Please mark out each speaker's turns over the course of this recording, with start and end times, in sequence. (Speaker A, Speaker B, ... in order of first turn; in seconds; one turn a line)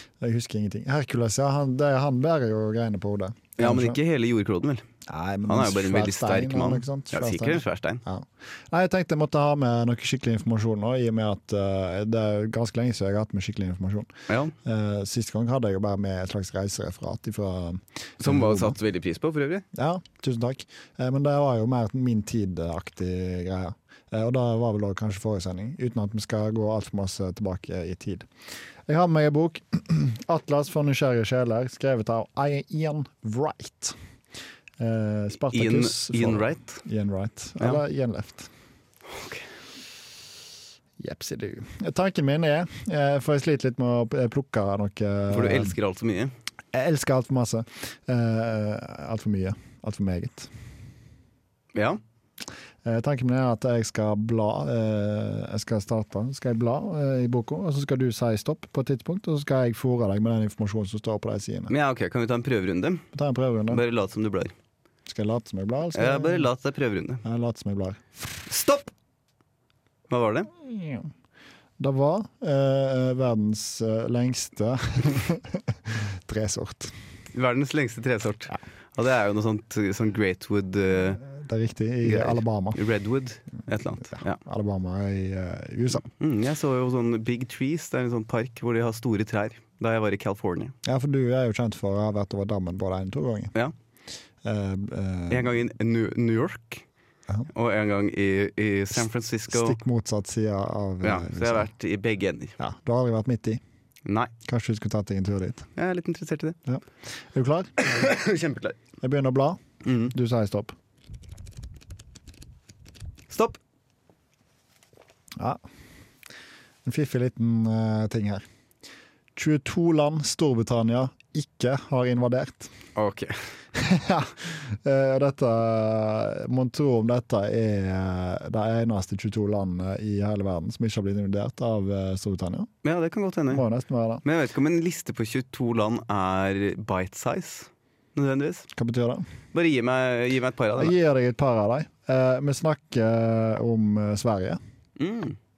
Speaker A: 0.2-4.0
Speaker B: 3.6-4.8
Speaker A: 5.1-14.1
Speaker B: 5.5-8.0
Speaker B: 14.3-14.5
Speaker A: 14.6-18.8
Speaker B: 18.2-19.7
Speaker A: 19.7-28.3
Speaker A: 28.9-34.0
Speaker A: 34.8-38.5
Speaker B: 35.5-36.8
Speaker B: 39.1-39.5
Speaker A: 41.0-45.8
Speaker B: 45.3-46.3
Speaker A: 46.7-50.5
Speaker B: 51.8-52.0
Speaker A: 52.9-61.7
Speaker B: 61.7-63.0
Speaker A: 63.1-63.8
Speaker B: 63.7-64.5
Speaker A: 65.1-66.5
Speaker B: 65.9-67.2
Speaker A: 67.2-68.5
Speaker B: 68.5-68.9
Speaker B: 70.1-70.5
Speaker A: 70.6-71.1
Speaker A: 71.8-77.0
Speaker B: 77.3-81.2
Speaker A: 81.2-82.8
Speaker B: 82.0-84.4
Speaker A: 84.1-86.1
Speaker B: 86.1-90.8
Speaker A: 90.8-93.5
Speaker A: 94.4-95.5
Speaker B: 95.3-96.8
Speaker B: 97.5-99.8
Speaker A: 99.5-101.7
Speaker B: 101.0-102.5
Speaker A: 102.6-103.6
Speaker B: 104.1-104.3
Speaker A: 104.5-105.7
Speaker B: 105.8-106.6
Speaker A: 106.7-107.7
Speaker B: 107.8-108.8
Speaker A: 109.0-110.8
Speaker B: 109.8-110.1
Speaker B: 113.3-113.6
Speaker A: 115.4-115.6
Speaker A: 116.8-118.4
Speaker A: 119.3-122.7
Speaker B: 123.0-123.3
Speaker A: 123.7-132.7
Speaker B: 132.8-133.6
Speaker A: 133.5-134.2
Speaker B: 134.2-138.7
Speaker A: 138.7-139.2
Speaker B: 139.5-140.9
Speaker A: 140.8-144.6
Speaker B: 145.0-145.4